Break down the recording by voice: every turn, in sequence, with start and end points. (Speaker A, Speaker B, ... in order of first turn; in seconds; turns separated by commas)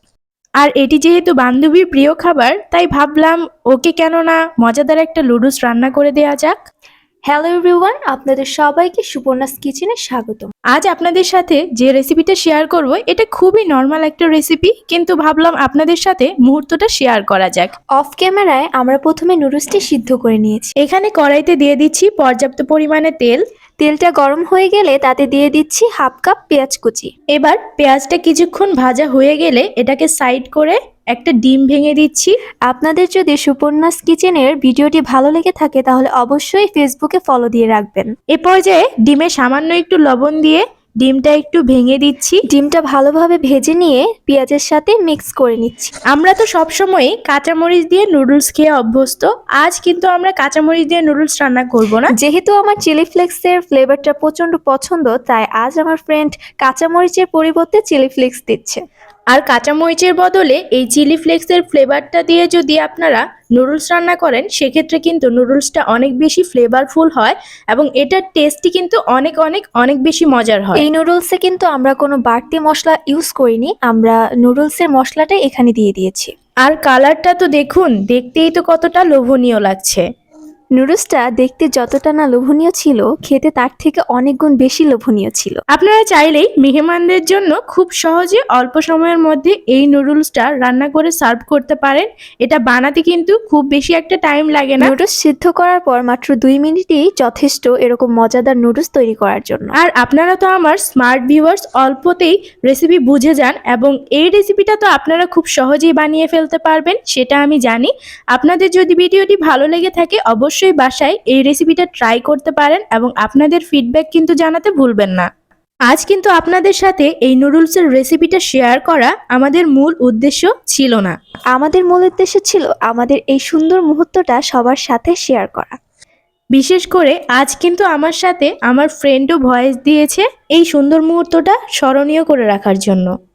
Speaker A: 0.6-6.6, Speaker B: 7.3-10.5, Speaker A: 10.7-17.7, Speaker B: 18.0-20.8, Speaker A: 20.8-23.4, Speaker B: 23.8-27.1, Speaker A: 27.3-32.4, Speaker B: 32.7-38.1, Speaker A: 38.3-42.4, Speaker B: 42.5-45.9, Speaker A: 46.1-52.1, Speaker B: 52.1-58.8, Speaker A: 59.3-70.9, Speaker B: 70.8-76.3, Speaker A: 76.7-80.0, Speaker B: 80.8-85.6, Speaker A: 85.7-94.9, Speaker B: 94.8-99.7, Speaker A: 99.8-115.3, Speaker A: 115.9-121.2, Speaker B: 121.5-125.8, Speaker A: 126.5-133.1